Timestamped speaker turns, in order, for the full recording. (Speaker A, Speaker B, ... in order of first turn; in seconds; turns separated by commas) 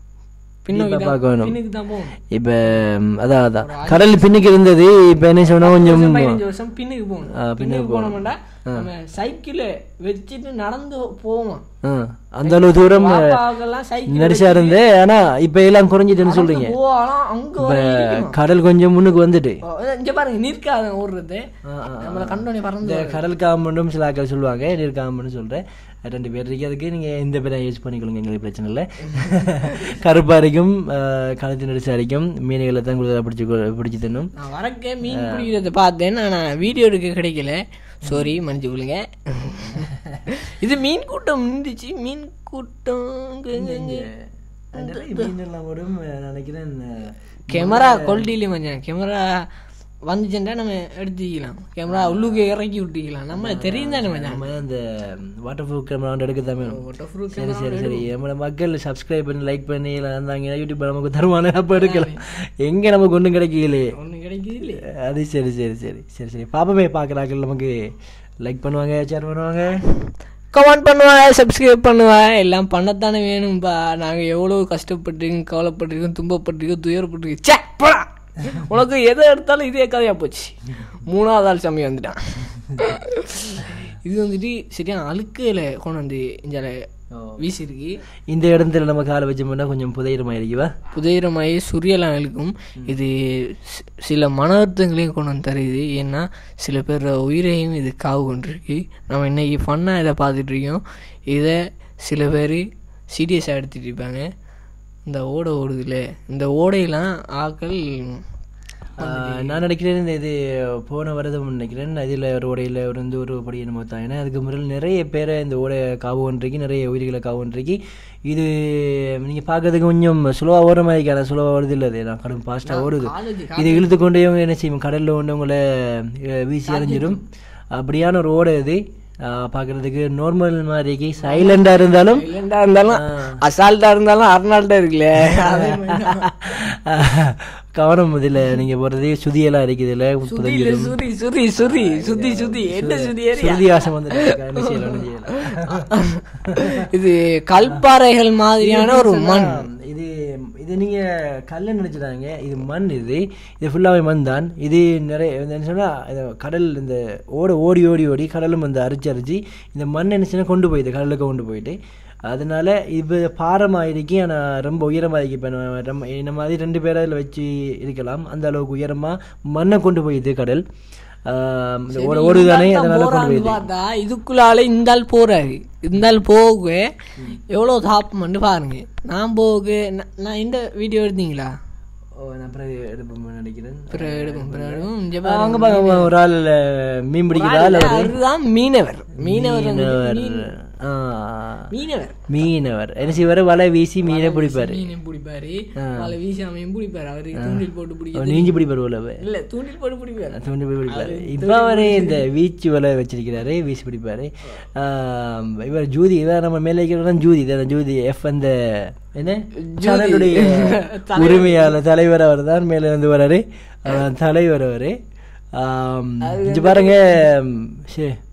Speaker A: 0.7-2.2, Speaker B: 0.7-1.6, Speaker B: 2.3-6.4, Speaker A: 3.6-4.4, Speaker A: 5.6-11.6, Speaker B: 7.3-8.9, Speaker B: 11.8-13.4, Speaker A: 12.4-14.8, Speaker B: 14.1-16.8, Speaker A: 16.2-18.4, Speaker B: 17.6-19.6, Speaker A: 19.6-21.5, Speaker B: 21.6-34.3, Speaker A: 22.0-23.2, Speaker A: 29.2-29.9, Speaker A: 34.4-44.1, Speaker B: 35.1-35.5, Speaker B: 38.1-38.3, Speaker B: 43.5-44.2, Speaker B: 44.7-48.3, Speaker A: 44.8-45.3, Speaker A: 47.5-49.3, Speaker A: 50.1-54.5, Speaker B: 51.9-52.4, Speaker B: 53.3-56.8, Speaker A: 56.6-58.1, Speaker B: 57.3-63.9, Speaker A: 61.8-62.2, Speaker A: 63.9-64.8, Speaker B: 64.9-67.9, Speaker B: 68.4-69.8, Speaker A: 70.5-86.8, Speaker B: 87.1-87.4, Speaker A: 87.4-88.0, Speaker B: 88.3-90.7, Speaker A: 90.9-104.3, Speaker A: 105.1-108.2, Speaker A: 109.0-109.6, Speaker B: 109.0-127.2, Speaker A: 122.7-124.0, Speaker A: 126.7-127.2, Speaker B: 127.8-132.3, Speaker A: 131.2-136.3, Speaker B: 132.9-133.4, Speaker B: 135.2-140.9, Speaker A: 140.3-149.7, Speaker B: 141.6-145.9, Speaker B: 146.5-146.9, Speaker B: 148.6-170.7, Speaker B: 171.3-173.7, Speaker A: 171.9-176.9, Speaker A: 177.5-181.5, Speaker B: 182.2-188.2, Speaker A: 183.9-186.1, Speaker A: 187.3-190.5, Speaker B: 189.2-191.7, Speaker A: 191.7-192.2, Speaker B: 192.3-194.8, Speaker A: 194.0-198.6, Speaker B: 195.8-196.1, Speaker B: 197.3-199.2, Speaker A: 199.2-202.2, Speaker B: 200.3-215.0, Speaker A: 209.6-211.8, Speaker B: 215.6-218.2, Speaker A: 216.2-217.3